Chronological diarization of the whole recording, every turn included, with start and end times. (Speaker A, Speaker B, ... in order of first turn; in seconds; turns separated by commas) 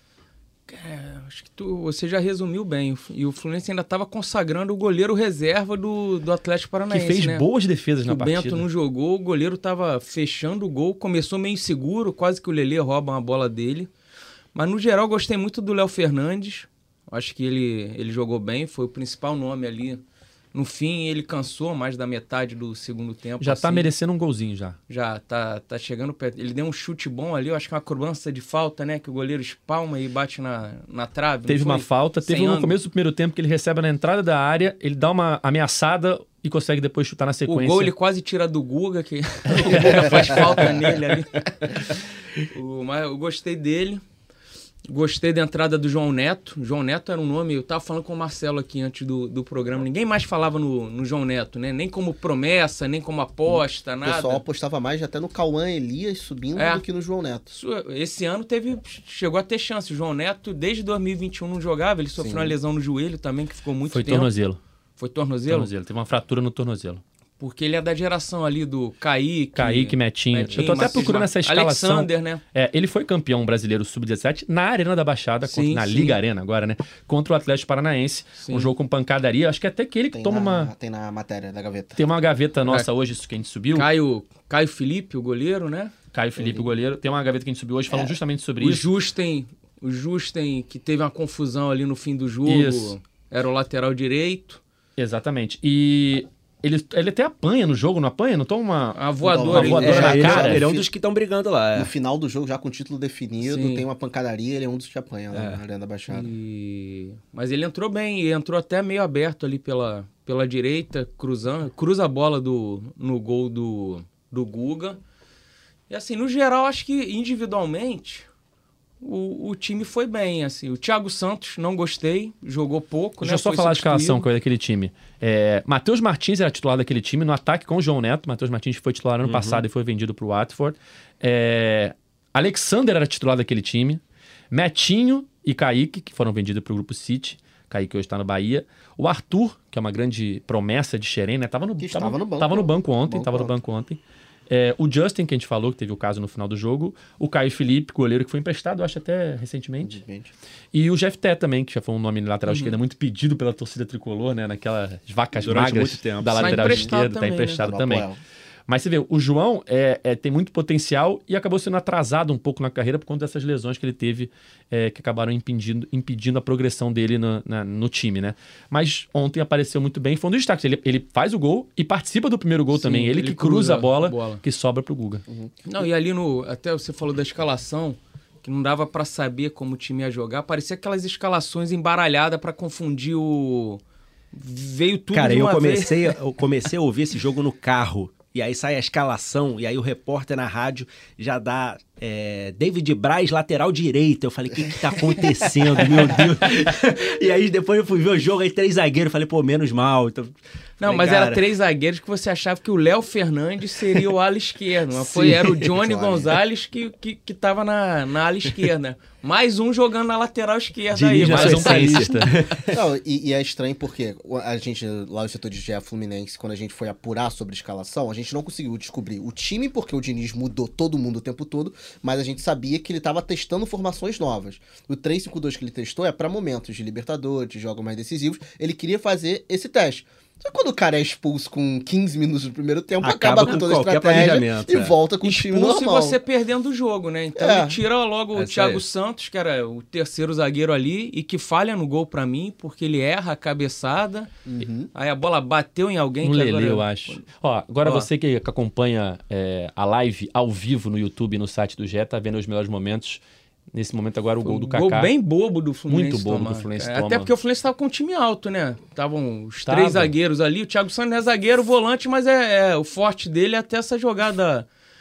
Speaker A: 0.7-7.5, Speaker B: 6.9-8.7, Speaker A: 8.1-13.9, Speaker A: 14.5-20.0, Speaker A: 20.5-23.9, Speaker B: 23.4-24.8, Speaker A: 24.9-32.7, Speaker B: 31.5-37.9, Speaker A: 37.5-44.0, Speaker B: 39.5-40.6, Speaker A: 44.9-54.4, Speaker C: 53.5-57.5, Speaker A: 56.6-56.8, Speaker A: 57.5-64.3, Speaker C: 62.2-62.6, Speaker B: 63.9-64.6, Speaker A: 65.0-65.7, Speaker B: 65.5-67.0, Speaker A: 67.4-72.4, Speaker B: 69.6-80.7, Speaker A: 75.5-76.2, Speaker A: 78.4-78.7, Speaker C: 80.1-82.0, Speaker B: 82.0-83.9, Speaker A: 83.7-85.9, Speaker B: 86.1-88.9, Speaker C: 86.4-86.6, Speaker A: 88.6-94.6, Speaker B: 92.5-92.9, Speaker B: 95.0-100.7, Speaker A: 99.0-100.3, Speaker C: 99.2-100.9, Speaker D: 99.8-101.9, Speaker C: 101.7-106.3, Speaker A: 103.4-103.8, Speaker D: 105.3-105.6, Speaker A: 106.1-115.0, Speaker A: 115.9-118.3, Speaker A: 119.0-124.3, Speaker B: 123.2-150.0, Speaker D: 129.2-129.7, Speaker C: 141.8-143.6, Speaker C: 149.8-150.3, Speaker B: 150.7-158.1, Speaker A: 152.5-152.8, Speaker D: 155.4-156.7, Speaker A: 156.3-157.6, Speaker C: 157.6-158.2, Speaker B: 158.7-175.2, Speaker A: 172.7-174.4, Speaker C: 175.3-175.5, Speaker A: 175.7-183.8, Speaker A: 184.3-186.2, Speaker D: 185.1-201.4, Speaker A: 200.8-212.6, Speaker C: 205.1-206.4, Speaker D: 210.9-212.7, Speaker B: 211.2-212.3, Speaker C: 212.7-236.2, Speaker D: 233.0-234.9, Speaker A: 235.2-244.3, Speaker C: 237.4-237.8, Speaker D: 238.3-238.8, Speaker C: 244.5-244.9, Speaker A: 244.9-247.2, Speaker B: 246.2-253.2, Speaker A: 247.8-248.1, Speaker B: 253.7-255.1, Speaker A: 254.4-264.7, Speaker B: 255.9-257.3, Speaker B: 259.7-260.1